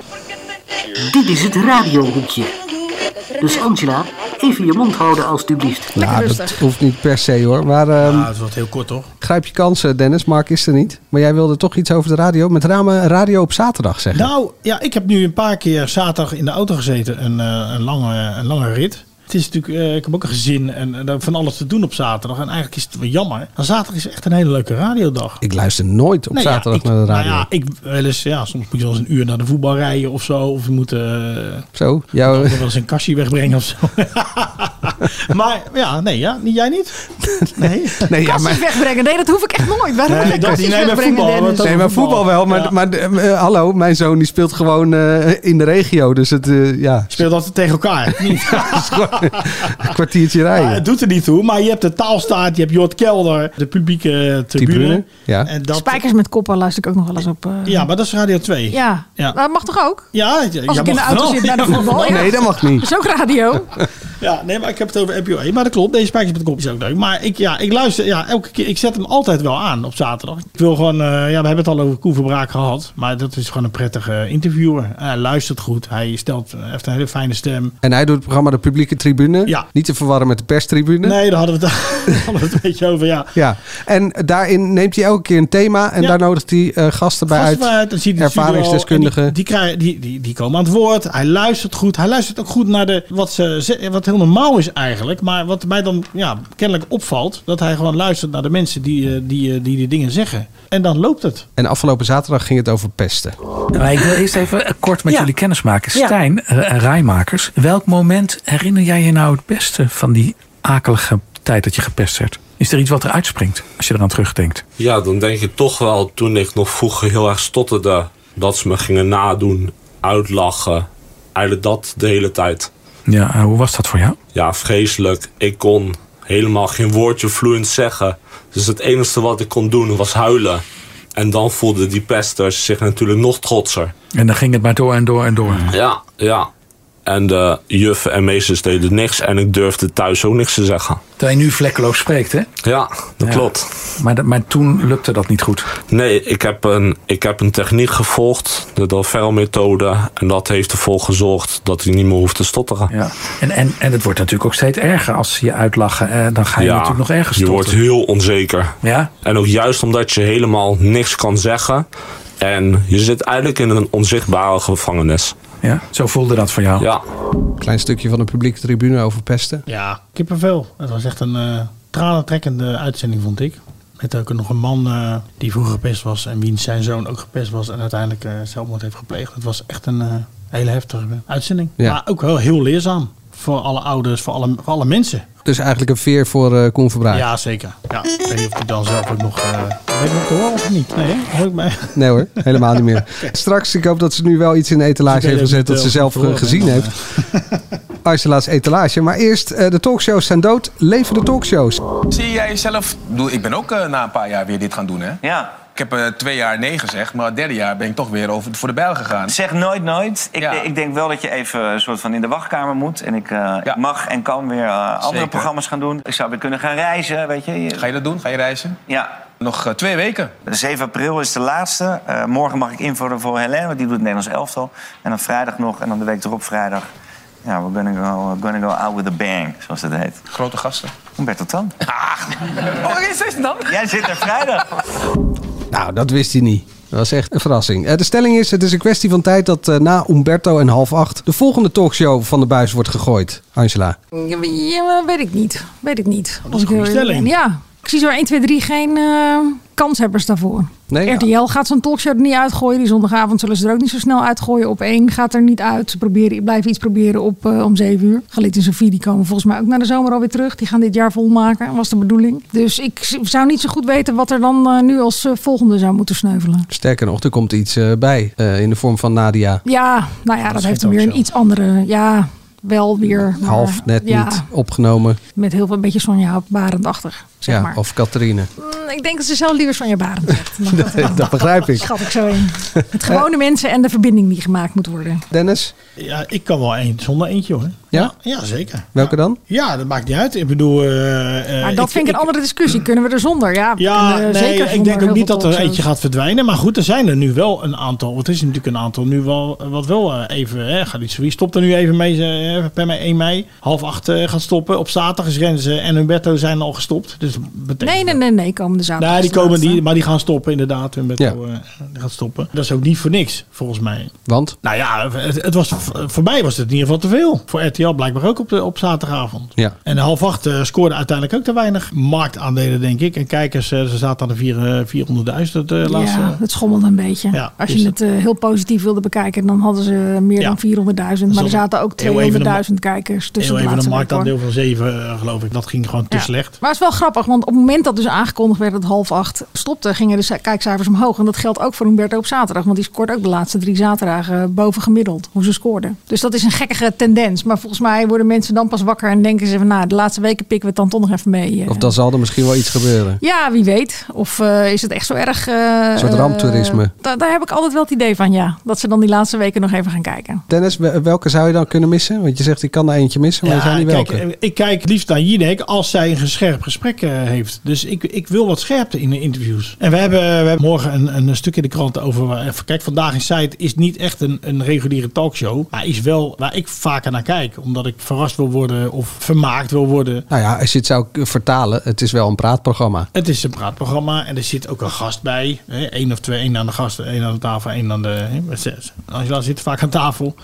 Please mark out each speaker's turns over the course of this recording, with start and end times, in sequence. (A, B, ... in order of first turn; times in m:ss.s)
0:01.0-0:02.5 A
0:03.4-0:06.0 A
0:06.0-0:06.6 B
0:06.0-0:08.3 C
0:08.0-0:09.1 D
0:09.2-0:14.3 C
0:14.1-0:25.4 D
0:25.4-0:27.5 C
0:26.3-0:31.7 D
0:31.8-0:32.6 C
0:32.3-0:38.1 D
0:37.4-0:38.6 C
0:38.2-0:41.8 B
0:40.1-0:42.7 D
0:41.6-0:47.2 C
0:47.1-0:49.9 D
0:48.2-0:50.8 C
0:50.5-0:56.0 D
0:54.6-0:55.5 C
0:55.7-0:57.9 B
0:57.7-0:59.4 D
0:58.7-1:00.1 B
1:00.1-1:02.4 D
1:00.7-1:03.8 B
1:01.9-1:02.9 C
1:04.2-1:17.8 D
1:17.8-1:21.2 C
1:21.0-1:23.3 D
1:23.4-1:29.4 C
1:27.3-1:41.5 D
1:41.6-1:43.4 C
1:43.7-1:54.6 E
1:54.8-2:02.7 F
2:03.1-2:04.2 E
2:04.3-2:10.6 F
2:11.2-2:13.9 F
2:14.1-2:15.8 E
2:15.6-2:16.5 F
2:17.1-2:21.0 F
2:21.2-2:22.5 E
2:22.6-2:23.8 F
2:23.2-2:25.8 E
2:25.9-2:32.9 F
2:32.9-2:37.8 E
2:36.6-2:41.9 F
2:38.8-2:39.1 E
2:42.4-2:45.4 F
2:45.6-2:46.9 E
2:46.8-2:47.0 F
2:47.6-2:49.7 C
2:49.7-3:05.3 D
3:05.4-3:07.3 C
3:07.1-3:13.3 D
3:11.9-3:17.0 C
3:15.1-3:17.6 D
3:18.0-3:21.8 C
3:22.1-3:29.4 G
3:25.2-3:25.6 H
3:29.3-3:37.9 H
3:30.4-3:30.7 G
3:35.0-3:35.5 G
3:37.8-3:38.8 G
3:39.4-3:40.3 G
3:40.5-3:46.9 H
3:47.4-3:50.2 H
3:50.3-3:50.9 G
3:51.2-3:51.8 H
3:52.0-3:54.3 G
3:53.7-3:54.6 H
3:55.7-4:04.0 C
4:04.1-4:26.7 B
4:06.4-4:07.3 D
4:10.9-4:11.3 C
4:26.7-4:29.6 C
4:29.6-4:34.5 B
4:30.5-4:31.2 D
4:33.4-4:35.2 C
4:35.4-4:37.8 B
4:37.5-4:38.5 C
4:38.6-4:45.2 B
4:40.7-4:41.9 C
4:42.7-4:43.2 C
4:45.3-4:45.7 C
4:46.0-4:52.3 D
4:49.0-4:49.4 C
4:51.6-4:55.8 B
4:53.8-5:08.2 D
5:07.8-5:09.8 B
5:09.0-5:26.4 D
5:14.3-5:14.6 C
5:25.8-5:34.3 B
5:27.3-5:27.9 D
5:31.3-5:32.6 D
5:33.4-5:36.6 D
5:36.1-5:51.9 B
5:51.7-5:53.2 C
5:53.2-6:00.4 B
5:56.0-5:56.9 C
6:00.5-6:04.2 C
6:03.4-6:20.3 D
6:20.3-6:23.1 C
6:23.1-6:30.4 D